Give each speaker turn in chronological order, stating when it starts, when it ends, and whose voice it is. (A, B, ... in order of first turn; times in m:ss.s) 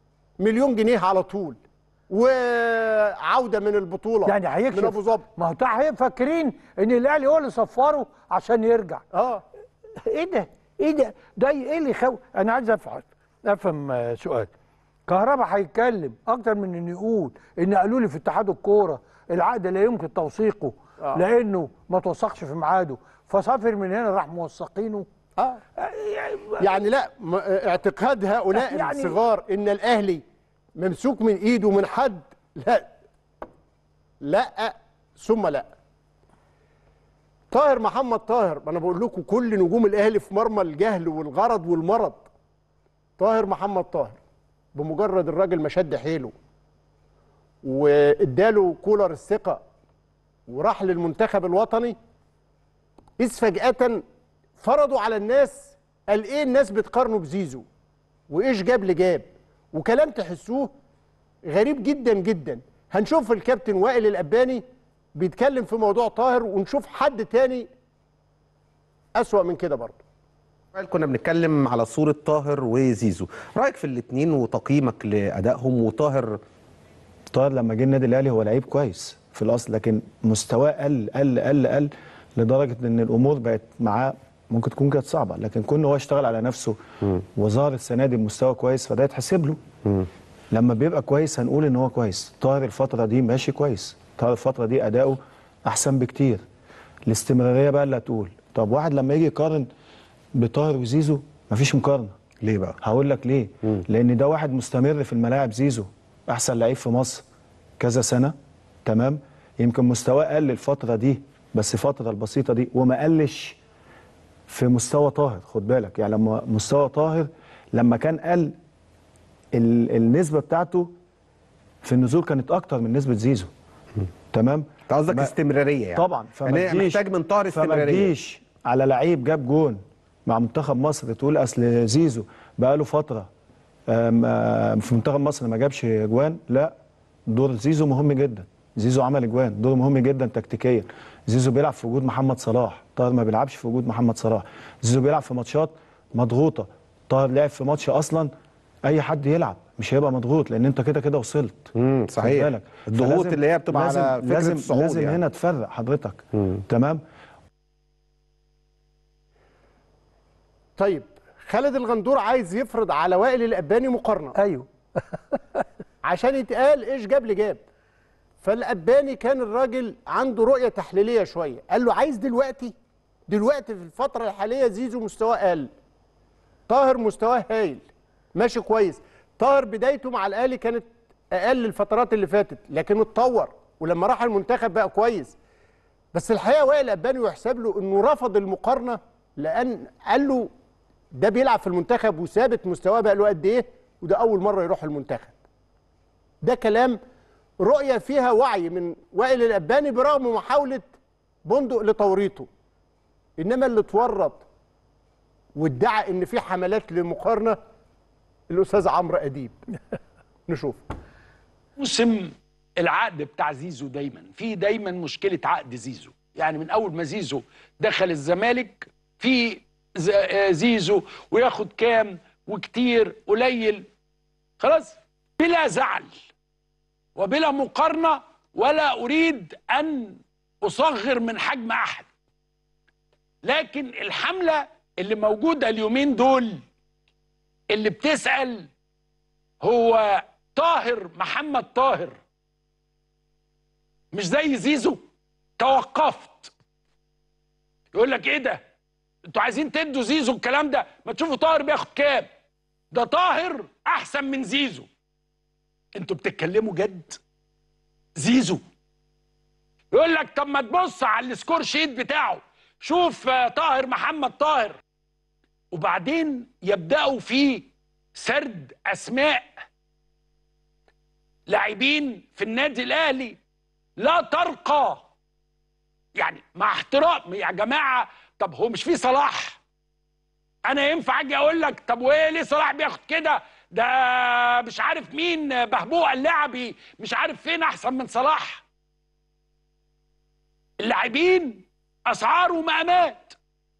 0:00.4-0:01.6 A
0:02.1-0:05.2 A
0:04.2-0:09.0 B
0:09.1-0:09.4 A
0:10.0-0:14.5 B
0:15.1-0:25.1 B
0:25.8-0:26.7 B
0:26.6-0:30.2 A
0:28.5-0:29.2 B
0:30.8-0:32.9 A
0:34.2-0:35.7 A
0:37.5-0:42.3 A
0:43.2-0:44.2 A
0:44.7-0:46.3 A
0:47.6-0:49.6 A
0:50.5-0:52.0 A
0:53.2-0:54.0 A
0:54.6-0:57.6 A
0:58.3-1:00.7 A
1:01.4-1:04.6 A
1:05.2-1:07.7 A
1:09.2-1:10.0 A
1:10.7-1:16.4 C
1:17.3-1:26.8 D
1:27.3-1:29.6 D
1:30.5-1:36.4 D
1:37.1-1:39.7 D
1:40.4-1:42.1 D
1:42.4-1:42.8 C
1:42.8-1:47.2 D
1:47.8-1:53.6 D
1:54.5-1:58.5 D
1:59.5-2:00.9 D
2:01.8-2:03.5 D
2:04.3-2:05.3 D
2:04.9-2:08.1 C
2:05.9-2:13.3 D
2:13.9-2:16.7 D
2:17.3-2:28.3 D
2:28.8-2:37.0 D
2:31.7-2:35.2 C
2:40.8-2:44.3 A
2:44.3-2:45.6 B
2:46.0-2:47.6 A
2:48.4-2:52.7 A
2:53.3-2:55.7 A
2:56.7-2:57.8 A
2:58.3-3:05.3 A
3:06.1-3:10.5 A
3:11.1-3:15.3 A
3:16.4-3:17.0 A
3:17.6-3:20.9 A
3:21.4-3:22.5 A
3:23.4-3:24.4 A
3:25.6-3:27.6 A
3:28.5-3:29.6 A
3:30.5-3:30.8 A
3:31.8-3:43.9 E
3:44.6-3:46.2 E
3:47.2-3:52.1 E
3:53.4-3:56.6 E
3:57.7-3:58.7 E
3:59.6-4:02.2 E
4:04.1-4:05.0 E
4:05.6-4:06.5 E
4:07.9-4:08.6 E
4:09.2-4:12.3 E
4:12.9-4:14.9 E
4:15.9-4:17.2 E
4:18.2-4:18.6 E
4:19.9-4:24.8 E
4:25.7-4:29.5 E
4:31.5-4:33.4 E
4:34.0-4:35.0 E
4:36.2-4:39.6 E
4:40.6-4:48.6 E
4:50.8-4:53.3 E